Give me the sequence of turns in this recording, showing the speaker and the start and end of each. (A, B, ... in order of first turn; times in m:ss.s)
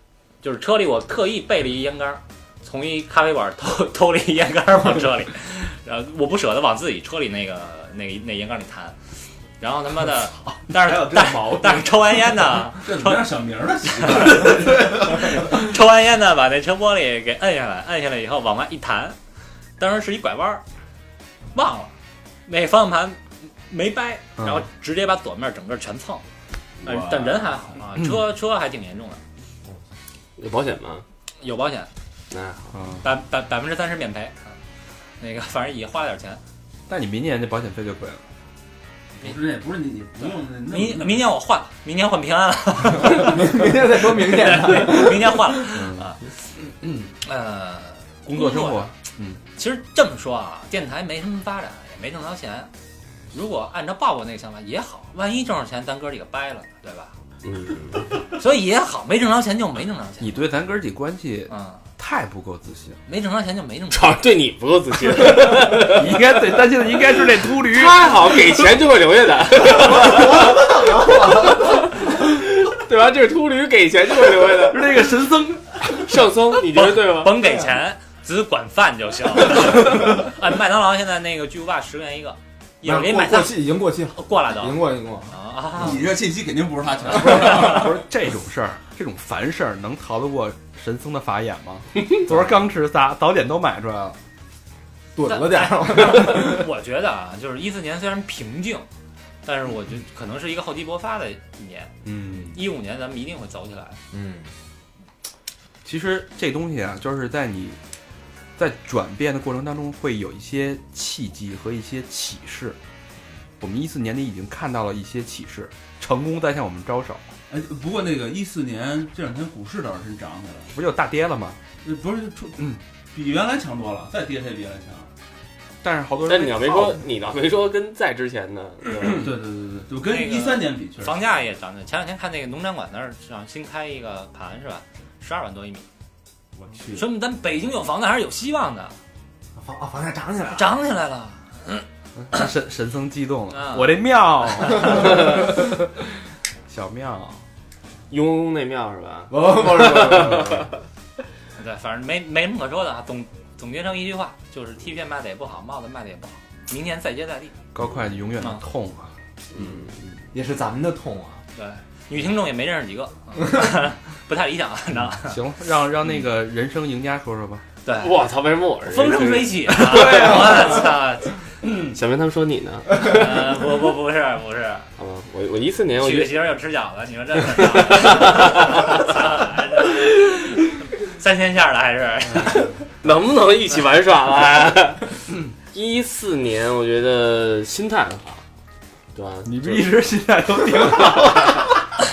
0:00.4-0:09.0 A
0:09.6-0:13.3 A
0:10.9-0:11.7 B
0:11.0-0:11.5 C
0:12.7-0:15.5 C
0:14.0-0:19.2 A
0:19.8-0:20.6 A
0:21.5-0:21.9 A
0:22.5-0:26.2 A
0:26.8-0:27.6 C
0:26.8-0:29.2 A
0:30.4-0:31.0 D
0:31.4-0:31.9 A
0:32.3-0:32.7 D
0:32.7-0:33.0 B
0:33.0-0:34.5 A
0:35.2-0:36.4 A
0:36.9-0:38.2 B
0:39.2-0:41.3 C
0:40.2-0:46.2 A
0:43.0-0:45.7 E
0:45.7-0:46.1 B
0:46.8-0:47.1 B
0:47.2-0:48.9 A
0:48.2-0:49.4 B
0:49.6-0:52.7 A
0:53.3-0:57.1 A
0:57.4-0:58.1 D
0:58.3-1:00.4 A
1:00.2-1:03.0 B
1:01.5-1:01.8 A
1:03.1-1:04.2 A
1:03.9-1:06.4 D
1:05.5-1:08.5 B
1:07.6-1:15.0 D
1:09.9-1:11.9 E
1:14.6-1:16.0 B
1:15.9-1:17.4 D
1:16.7-1:23.6 A
1:22.8-1:25.3 E
1:24.1-1:26.1 A
1:25.8-1:28.0 C
1:27.1-1:34.2 B
1:35.2-1:36.7 E
1:35.3-1:38.9 A
1:39.4-1:44.0 A
1:42.0-1:42.6 B
1:44.1-1:44.5 E
1:45.8-1:47.8 B
1:48.6-1:52.8 B
1:53.6-1:57.2 B
1:57.5-2:00.7 C
2:00.7-2:01.6 B
2:01.8-2:05.1 C
2:05.8-2:07.0 B
2:06.3-2:09.3 D
2:09.1-2:11.2 C
2:10.0-2:15.9 A
2:16.6-2:17.0 C
2:16.9-2:19.0 A
2:19.6-2:20.8 E
2:20.5-2:21.8 A
2:22.2-2:25.9 B
2:23.5-2:25.0 A
2:26.7-2:27.4 B
2:28.1-2:30.6 D
2:29.3-2:30.7 E
2:31.6-2:37.6 A
2:37.7-2:39.1 B
2:39.5-2:39.9 D
2:40.3-2:41.4 E
2:41.6-2:45.4 A
2:45.2-2:47.6 B
2:47.8-2:48.2 A
2:48.0-2:50.6 D
2:48.8-2:51.4 A
2:49.8-2:50.8 B
2:51.8-2:53.5 D
2:53.0-2:54.9 A
2:55.0-2:56.4 D
2:56.0-3:02.7 A
2:57.5-2:59.1 D
3:03.0-3:05.1 D
3:05.7-3:08.4 D
3:09.2-3:09.9 D
3:09.4-3:11.6 B
3:10.7-3:11.7 D